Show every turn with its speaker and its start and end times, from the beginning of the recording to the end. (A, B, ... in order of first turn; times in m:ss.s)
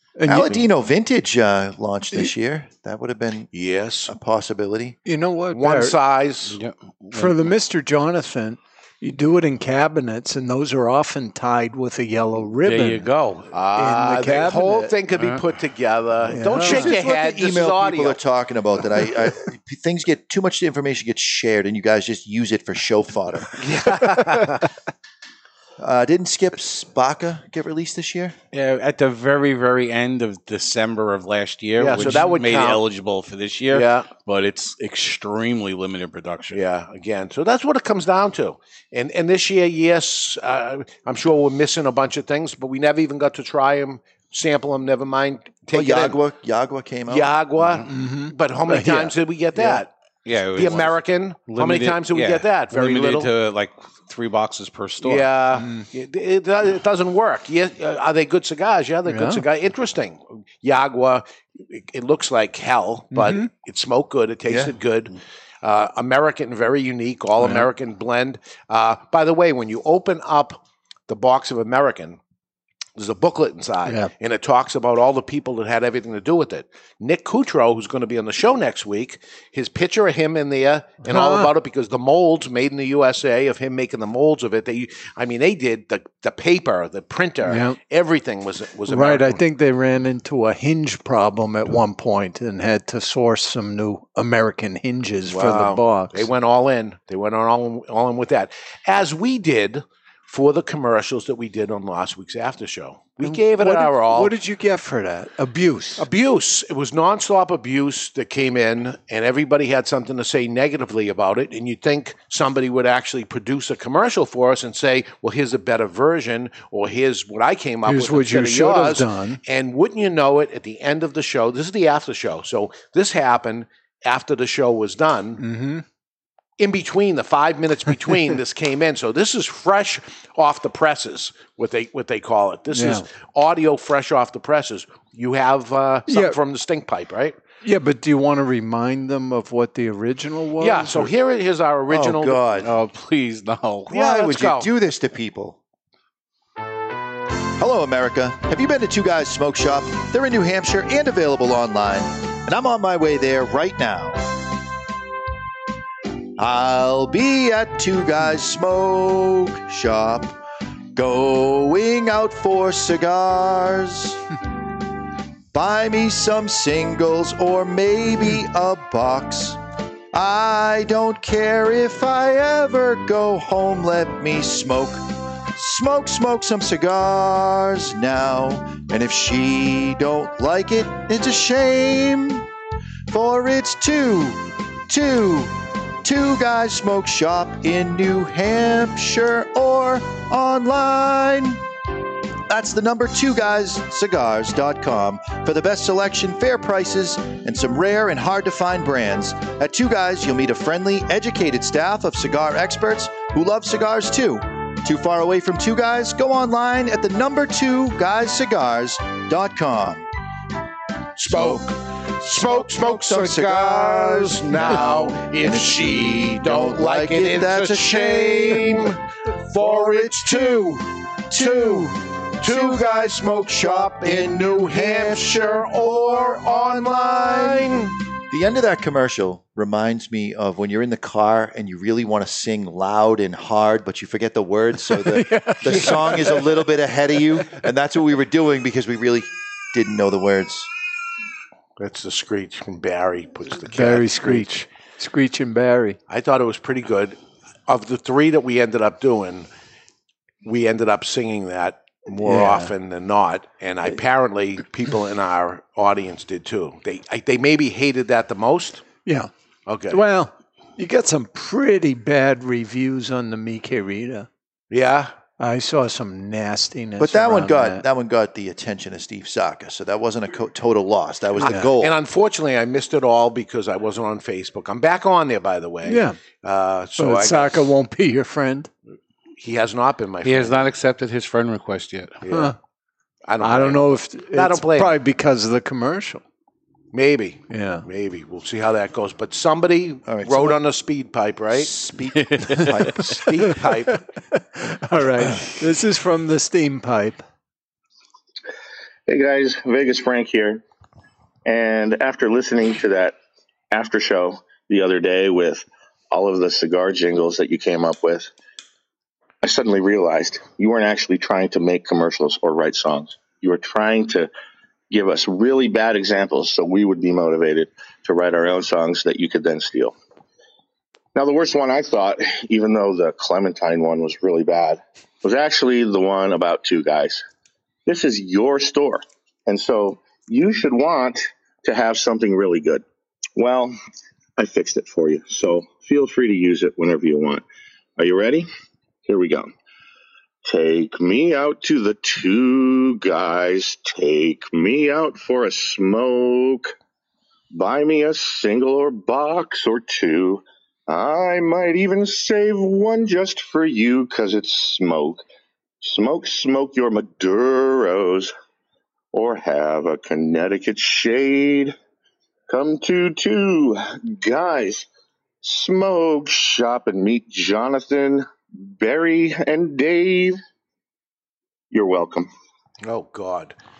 0:00.2-0:00.6 A
0:00.2-0:03.5 B
0:03.5-0:04.1 C
0:04.1-0:05.0 B
0:05.0-0:06.0 A
0:05.5-0:06.6 C
0:06.5-0:07.4 D
0:07.1-0:13.1 A
0:12.6-0:13.5 D
0:13.5-0:18.2 C
0:13.8-0:14.9 A
0:15.2-0:15.4 D
0:16.3-0:16.9 A
0:16.6-0:23.6 B
0:23.6-0:24.7 C
0:25.8-0:28.4 B
0:28.5-0:36.6 D
0:31.8-0:32.8 C
0:32.0-0:32.3 A
0:33.7-0:34.1 C
0:36.5-0:46.2 C
0:45.7-0:47.4 B
0:47.1-0:49.9 C
0:47.8-0:49.8 A
0:50.2-0:55.3 D
0:50.5-0:53.3 C
0:55.0-1:12.2 C
0:55.6-0:55.8 A
0:59.0-0:59.4 A
1:03.1-1:03.5 A
1:04.5-1:04.7 B
1:07.4-1:07.7 A
1:13.0-1:29.4 C
1:13.8-1:14.1 A
1:21.0-1:21.5 A
1:27.4-1:27.8 A
1:28.8-1:36.3 A
1:35.3-1:44.3 C
1:43.2-1:46.1 A
1:46.0-2:05.4 C
1:57.8-1:59.4 A
2:05.4-2:05.8 A
2:06.6-2:17.4 C
2:12.7-2:13.0 A
2:16.1-2:16.4 A
2:17.6-2:21.1 A
2:20.6-2:22.4 C
2:21.9-2:22.7 B
2:22.6-2:23.9 D
2:23.9-2:24.7 C
2:23.9-2:25.6 B
2:27.6-2:34.3 B
2:36.4-2:40.4 B
2:40.9-2:44.2 B
2:45.5-2:49.6 B
2:50.1-3:02.5 B
3:03.1-3:11.6 B
3:12.5-3:30.0 B
3:31.2-3:31.7 B
3:31.2-3:39.0 C
3:32.2-3:39.0 B
3:39.5-4:00.7 B
3:39.5-3:40.7 C
3:41.4-3:47.9 C
3:54.8-3:56.5 A
3:55.8-3:56.2 C
4:01.8-4:04.4 C
4:03.7-4:06.0 A
4:06.1-4:09.5 C
4:10.4-4:18.9 C
4:12.2-4:12.7 A
4:19.0-4:19.3 A
4:19.7-4:20.0 C
4:19.9-4:24.3 A
4:24.7-4:25.1 C
4:25.4-4:27.8 A
4:27.0-4:32.0 B
4:31.4-4:37.6 C
4:35.8-4:36.2 A
4:37.0-4:38.7 A
4:39.4-4:40.7 C
4:40.2-4:42.2 D
4:42.2-4:42.5 C
4:42.3-4:42.6 A
4:43.2-4:45.0 C
4:43.4-4:46.2 A
4:46.9-4:51.7 C
4:47.5-4:47.8 A
4:50.0-4:50.6 B
4:51.5-4:53.0 B
4:52.1-4:53.0 D
4:53.0-4:54.0 C
4:53.4-4:57.2 A
4:59.1-5:00.6 E
5:01.4-5:03.1 E
5:03.7-5:08.3 E
5:09.4-5:14.3 E
5:14.9-5:19.9 E
5:21.1-5:27.2 E
5:27.8-5:32.8 E
5:33.4-5:33.8 E
5:34.4-5:37.4 E
5:38.0-5:38.5 E
5:39.0-5:39.5 E
5:40.4-5:46.7 E
5:47.5-5:55.2 E
5:55.8-5:58.3 E
5:59.1-6:01.7 E
6:02.5-6:04.9 E
6:05.4-6:10.4 E
6:11.7-6:12.3 E
6:12.8-6:13.5 C